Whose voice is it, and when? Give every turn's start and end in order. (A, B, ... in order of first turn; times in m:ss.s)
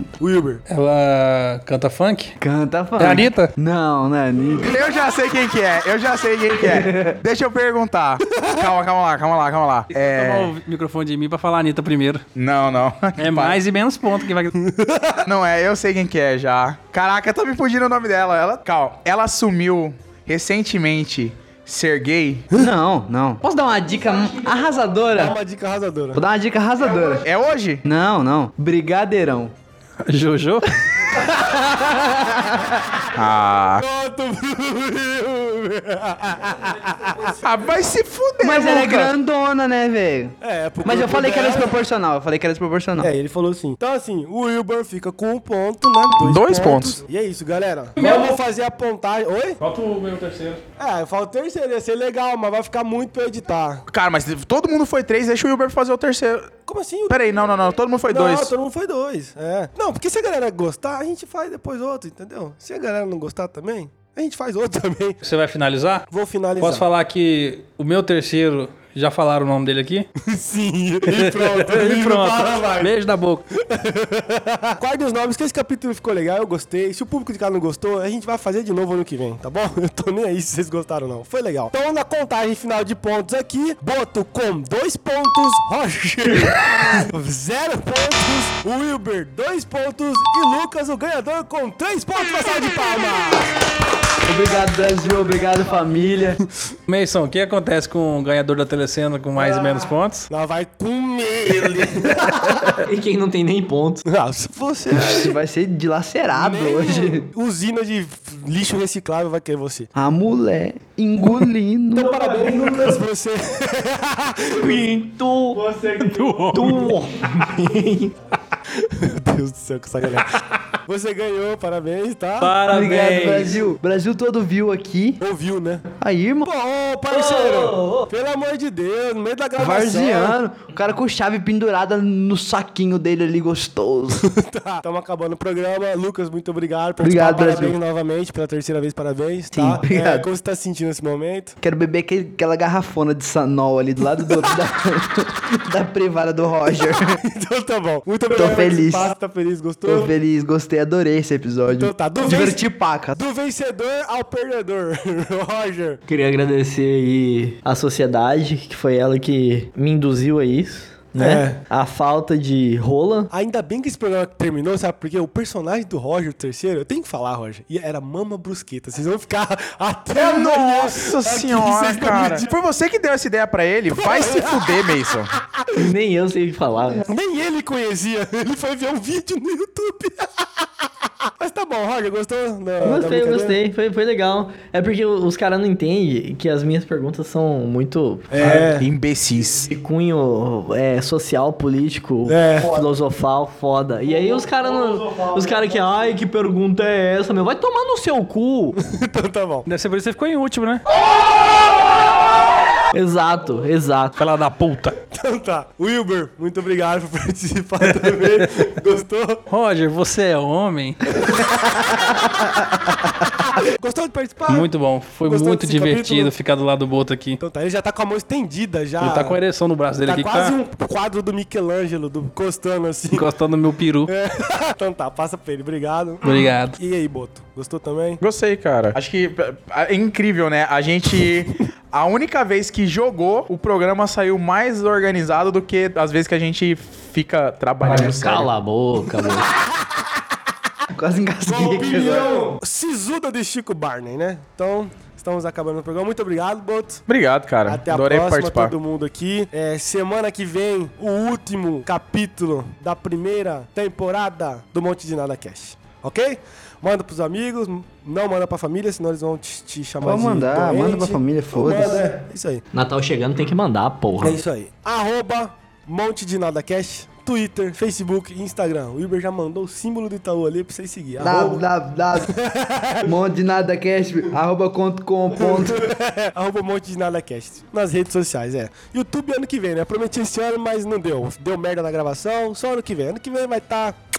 0:00.2-0:00.6 A
0:00.7-0:02.4 B
0:02.4-0:04.7 C
0:03.0-0:03.5 B
0:04.6-0:10.6 D
0:06.6-0:07.2 C
0:08.4-0:08.7 A
0:09.9-0:12.2 B
0:12.4-0:13.6 D
0:13.2-0:14.6 B
0:14.6-0:15.2 A
0:15.3-0:22.5 D
0:22.5-0:25.4 C
0:25.1-0:26.2 A
0:26.1-0:27.2 C
0:26.8-0:27.2 A
0:27.2-0:27.8 D
0:27.8-0:29.5 C
0:30.0-0:30.8 B
0:31.5-0:32.6 C
0:33.1-0:33.8 D
0:33.8-0:37.4 A
0:37.4-0:39.1 D
0:38.4-0:43.1 C
0:40.4-0:41.8 A
0:43.0-0:49.6 A
0:46.2-0:47.0 D
0:48.0-0:48.3 B
0:49.6-0:50.6 B
0:50.8-0:53.8 A
0:53.9-0:56.6 D
0:56.6-0:57.2 A
0:57.1-0:58.5 D
0:58.1-1:05.2 A
1:05.2-1:06.1 B
1:06.1-1:06.9 A
1:06.6-1:10.1 B
1:10.2-1:12.9 A
1:11.1-1:13.4 B
1:13.5-1:33.5 A
1:34.2-1:36.4 C
1:36.9-1:40.3 B
1:40.3-1:42.8 A
1:42.7-1:44.0 E
1:44.1-1:45.3 A
1:44.9-1:47.3 C
1:46.4-1:49.9 A
1:50.0-1:52.7 C
1:52.0-1:54.9 A
1:52.4-1:53.0 E
1:54.5-1:55.6 E
1:55.5-1:56.9 A
1:56.0-1:57.0 B
1:56.5-1:58.1 E
1:58.7-2:02.6 A
2:02.4-2:03.6 B
2:02.7-2:05.2 C
2:05.2-2:05.9 A
2:06.0-2:06.5 C
2:06.4-2:10.4 A
2:07.1-2:08.1 E
2:09.6-2:14.3 C
2:14.2-2:21.6 A
2:17.0-2:17.8 C
2:19.5-2:20.3 C
2:21.6-2:27.2 C
2:26.8-2:30.1 A
2:28.3-2:29.1 C
2:29.8-2:33.2 C
2:31.8-2:32.6 A
2:33.1-2:36.0 A
2:36.1-2:43.3 E
2:41.2-2:41.6 A
2:43.3-2:52.5 A
2:50.1-2:55.3 D
2:53.9-2:55.8 A
2:55.8-2:57.0 E
2:57.1-3:00.5 A
3:01.4-3:03.6 A
3:02.8-3:08.3 E
3:08.3-3:08.9 A
3:08.4-3:09.7 D
3:09.6-3:18.8 E
3:12.3-3:12.8 A
3:15.1-3:15.7 A
3:18.8-3:19.7 A
3:19.7-3:20.8 B
3:22.9-3:24.2 E
3:24.2-3:25.0 B
3:25.0-3:29.4 A
3:27.8-3:28.5 B
3:29.5-3:31.0 B
3:31.2-3:32.3 A
3:33.5-3:34.7 A
3:34.5-3:37.4 B
3:35.2-3:36.3 A
3:37.4-3:39.4 A
3:39.0-3:40.6 B
3:40.0-3:43.3 A
3:43.1-3:44.1 B
3:44.1-3:48.2 A
3:46.2-3:46.8 B
3:48.2-3:58.5 D
3:57.8-3:59.5 E
4:00.9-4:02.5 C
4:01.5-4:07.0 A
4:07.1-4:08.7 D
4:07.6-4:22.6 A
4:20.0-4:22.0 C
4:22.7-4:24.4 E
4:24.2-4:31.6 A
4:31.2-4:32.3 C
4:32.2-4:33.1 A
4:33.0-4:35.9 C
4:35.4-4:44.0 A